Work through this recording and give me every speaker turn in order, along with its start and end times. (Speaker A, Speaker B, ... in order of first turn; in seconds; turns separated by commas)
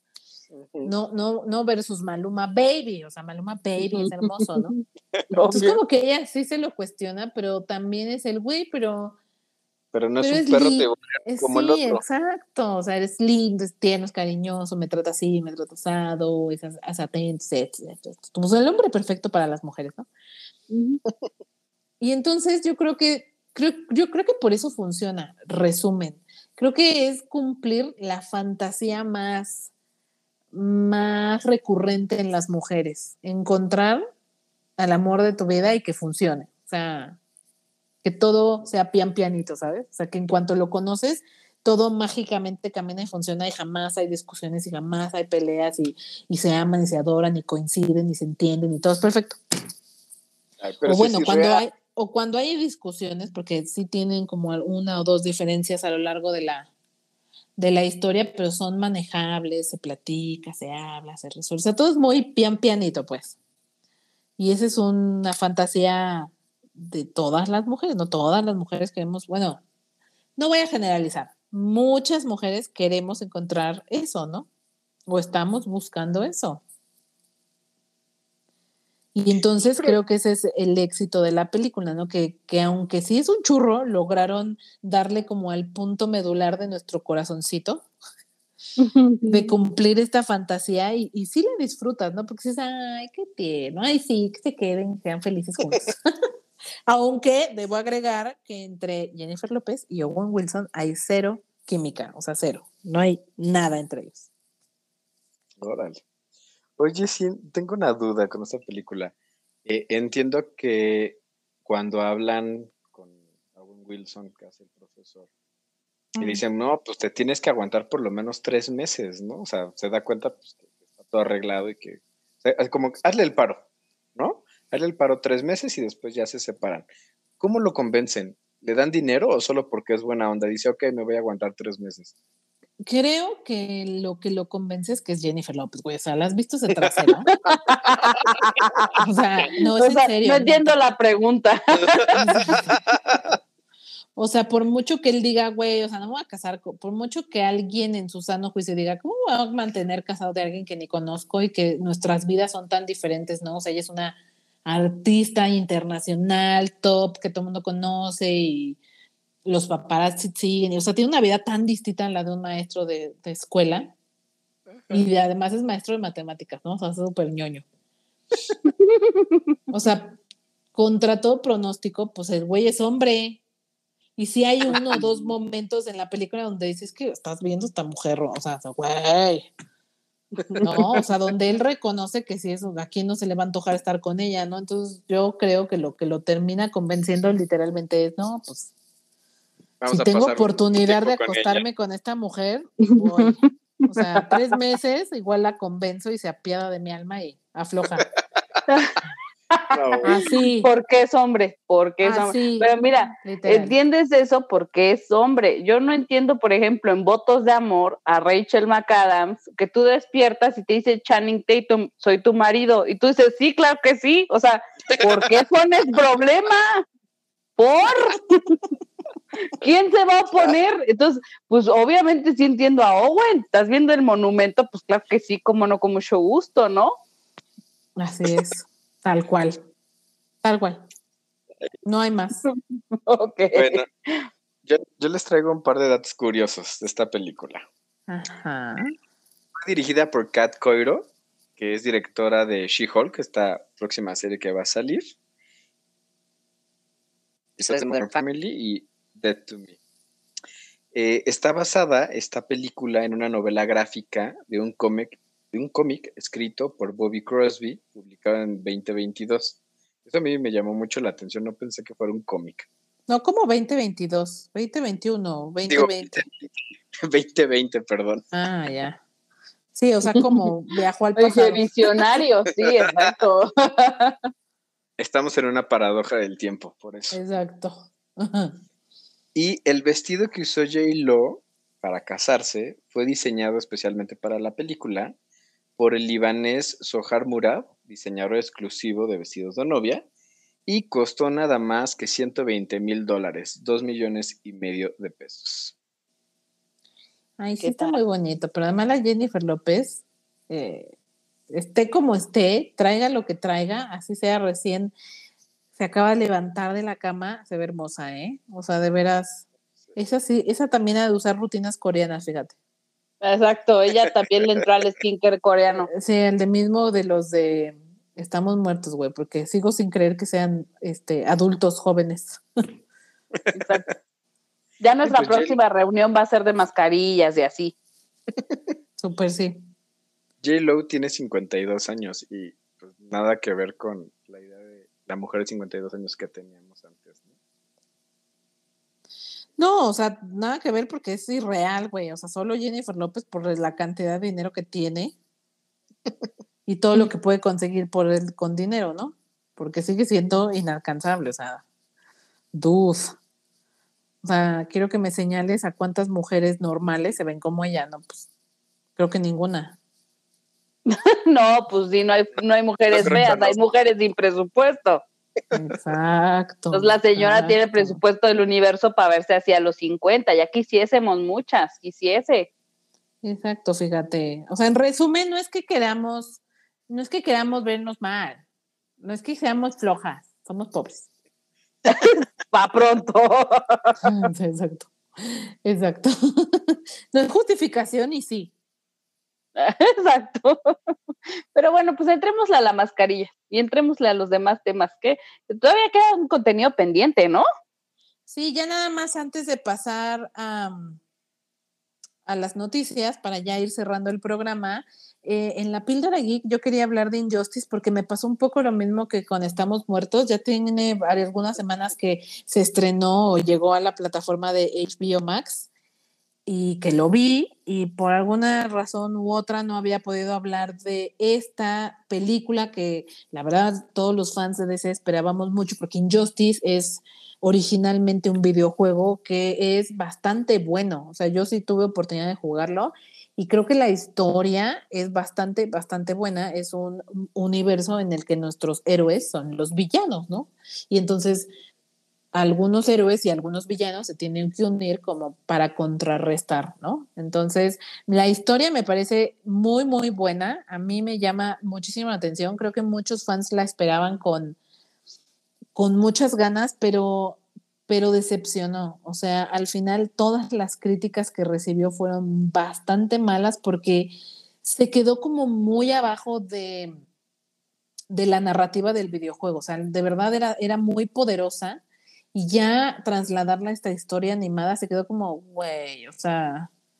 Speaker A: 0.5-0.9, Speaker B: 0.8-4.7, Speaker C: 3.8-5.8, Speaker B: 5.5-9.2, Speaker A: 9.9-12.0, Speaker B: 10.2-20.1, Speaker C: 20.7-21.0, Speaker B: 22.0-29.7, Speaker B: 30.5-34.0, Speaker B: 34.8-37.2, Speaker B: 38.0-49.4, Speaker A: 50.6-51.6, Speaker B: 50.9-56.7, Speaker B: 57.6-63.3, Speaker B: 64.4-69.6, Speaker B: 70.4-74.5, Speaker B: 75.1-76.6, Speaker B: 79.1-87.9, Speaker A: 79.3-80.0, Speaker C: 88.8-89.5, Speaker B: 89.2-96.0, Speaker B: 96.9-104.3, Speaker A: 105.6-106.0, Speaker A: 106.8-109.1, Speaker A: 109.6-115.3, Speaker B: 116.1-116.4, Speaker A: 116.2-123.6, Speaker A: 124.2-126.8, Speaker A: 127.4-132.1, Speaker B: 132.8-137.3, Speaker A: 136.8-137.1, Speaker C: 137.4-139.0, Speaker B: 139.0-140.7, Speaker C: 139.8-142.2, Speaker A: 141.8-143.3, Speaker B: 142.2-142.8, Speaker B: 144.2-158.8, Speaker B: 159.4-163.9, Speaker A: 164.7-165.0, Speaker B: 164.9-167.6, Speaker C: 168.6-169.4, Speaker B: 169.7-170.2, Speaker B: 170.7-173.4, Speaker B: 174.2-179.5, Speaker C: 180.4-180.7, Speaker A: 180.6-181.0, Speaker B: 180.6-188.7, Speaker A: 189.8-191.6, Speaker B: 189.9-198.1, Speaker C: 192.8-193.2, Speaker C: 194.2-194.6, Speaker C: 198.7-199.0, Speaker C: 199.5-216.8, Speaker A: 199.7-200.1, Speaker B: 200.0-200.7, Speaker B: 202.0-203.8, Speaker A: 215.0-215.3, Speaker C: 217.6-218.6, Speaker C: 219.4-226.9, Speaker B: 228.0-229.6, Speaker B: 230.4-230.8, Speaker B: 231.8-232.4, Speaker C: 232.5-234.2, Speaker A: 233.5-233.9, Speaker A: 234.6-237.7, Speaker B: 238.1-238.9, Speaker A: 239.6-245.1, Speaker A: 247.6-249.8, Speaker A: 250.9-262.7, Speaker B: 263.1-266.2, Speaker A: 265.7-268.2, Speaker B: 268.3-269.0, Speaker B: 269.7-271.8, Speaker C: 271.1-274.1, Speaker A: 272.6-273.1, Speaker A: 275.0-277.2, Speaker B: 277.1-278.6, Speaker A: 279.3-285.1, Speaker A: 285.8-290.0, Speaker A: 290.7-295.8, Speaker B: 297.4-300.9, Speaker C: 297.6-298.0, Speaker B: 301.5-304.9, Speaker B: 305.8-312.6, Speaker C: 313.2-315.9, Speaker B: 315.8-322.4, Speaker A: 323.4-323.7, Speaker C: 323.5-323.8, Speaker C: 324.8-327.7, Speaker A: 325.1-325.6, Speaker B: 329.0-329.6, Speaker A: 330.4-337.3, Speaker B: 339.6-345.1, Speaker B: 346.6-351.6, Speaker B: 352.5-353.1, Speaker B: 354.2-358.3, Speaker B: 358.9-359.8, Speaker C: 360.9-365.0, Speaker A: 362.9-363.6, Speaker B: 365.5-368.0, Speaker C: 366.7-372.5, Speaker B: 373.2-378.4, Speaker B: 379.0-381.1, Speaker C: 381.9-384.2, Speaker B: 384.0-388.5, Speaker C: 389.6-390.6, Speaker C: 391.5-397.4, Speaker B: 398.3-401.0, Speaker B: 402.2-415.7, Speaker B: 416.4-441.5, Speaker B: 442.3-454.6, Speaker B: 455.7-467.0, Speaker B: 468.1-471.8, Speaker B: 472.3-476.7